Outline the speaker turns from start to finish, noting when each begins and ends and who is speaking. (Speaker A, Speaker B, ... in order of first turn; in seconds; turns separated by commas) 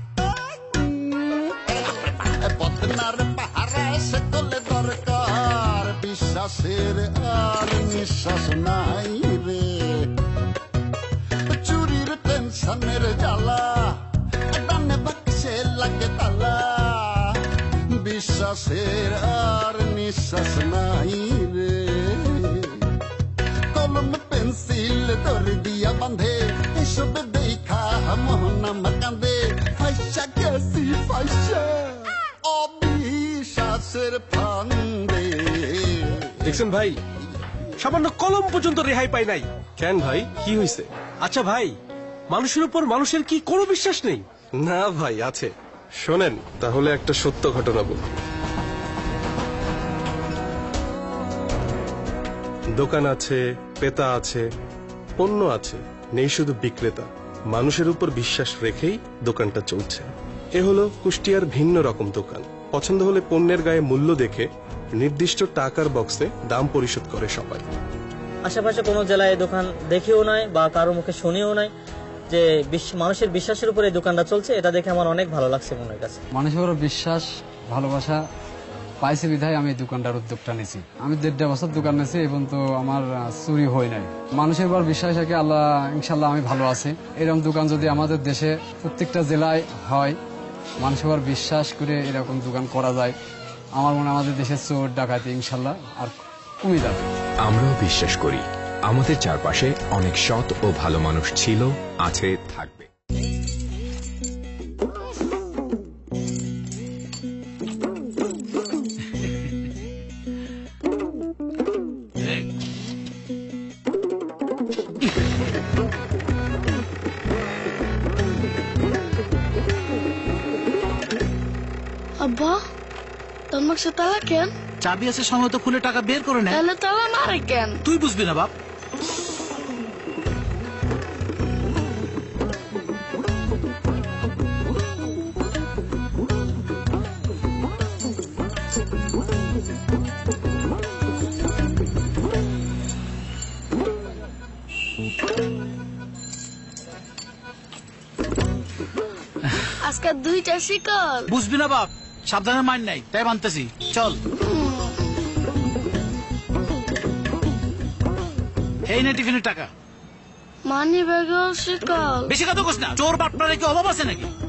Speaker A: 0.8-1.1, Speaker A: 1.6-10.1, Speaker A: 11.5-17.4, Speaker A: 17.9-22.8, Speaker A: 23.7-36.8, Speaker B: 37.8-39.4, Speaker C: 39.8-40.9, Speaker B: 41.2-41.7, Speaker B: 42.3-44.2, Speaker C: 44.6-45.5, Speaker C: 46.0-48.0, Speaker C: 52.8-54.4, Speaker C: 55.2-67.7, Speaker D: 68.4-71.7, Speaker D: 72.3-76.2, Speaker E: 76.3-78.2, Speaker E: 79.0-90.2, Speaker E: 90.8-93.1, Speaker E: 93.8-97.0, Speaker F: 97.4-102.9, Speaker G: 122.2-122.6, Speaker G: 123.5-124.5, Speaker H: 124.8-126.6, Speaker G: 126.5-127.8, Speaker H: 127.8-128.5, Speaker G: 149.8-151.3, Speaker H: 151.3-154.2, Speaker G: 154.4-155.0, Speaker H: 158.8-159.7, Speaker G: 160.7-162.3, Speaker H: 162.3-164.3